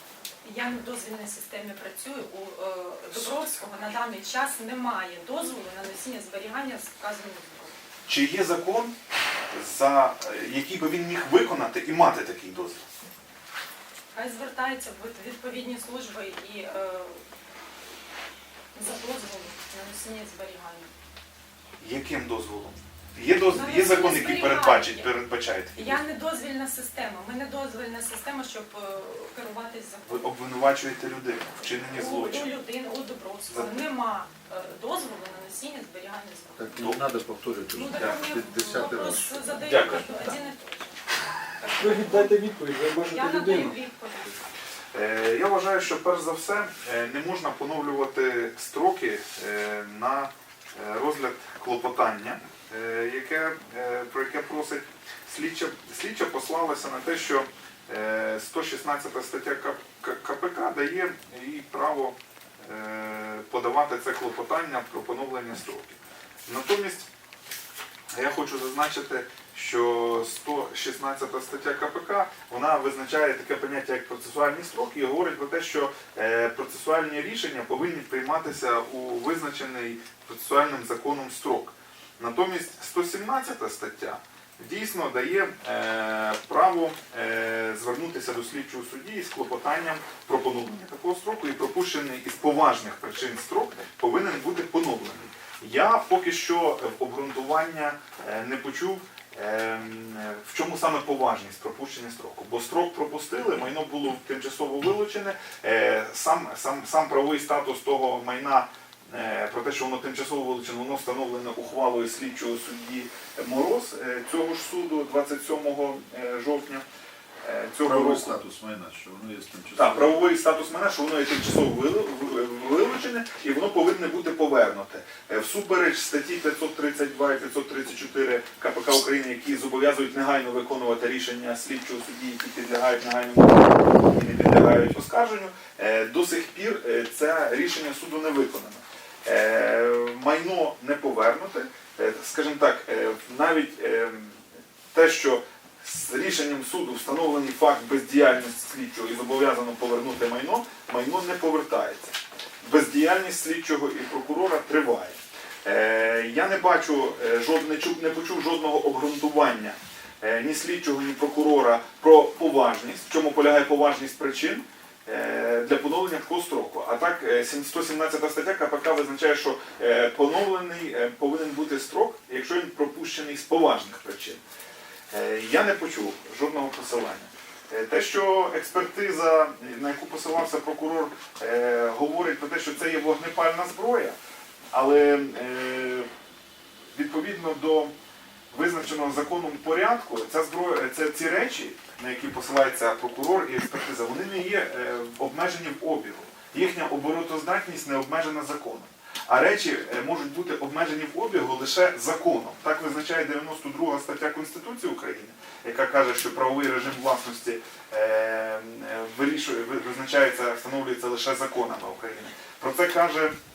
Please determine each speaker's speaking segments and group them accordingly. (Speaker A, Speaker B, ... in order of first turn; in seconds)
Speaker A: 0.4-7.7, 14.1-17.2, 18.7-20.9, 23.5-25.1, 25.8-30.1, 31.9-36.7, 37.7-41.0, 41.6-42.3, 43.0-44.4
Speaker B: 8.1-8.9, 9.5-12.9, 21.8-26.0, 30.1-32.5, 33.5-33.8, 39.6-40.1, 44.9-67.1, 68.1-116.8, 117.4-118.3, 119.8-144.4, 144.9-174.4, 175.1-184.2, 184.7-186.1, 186.9-187.9, 188.5-213.3
Speaker C: 36.6-40.0, 117.8-120.2
Speaker D: 41.8-43.8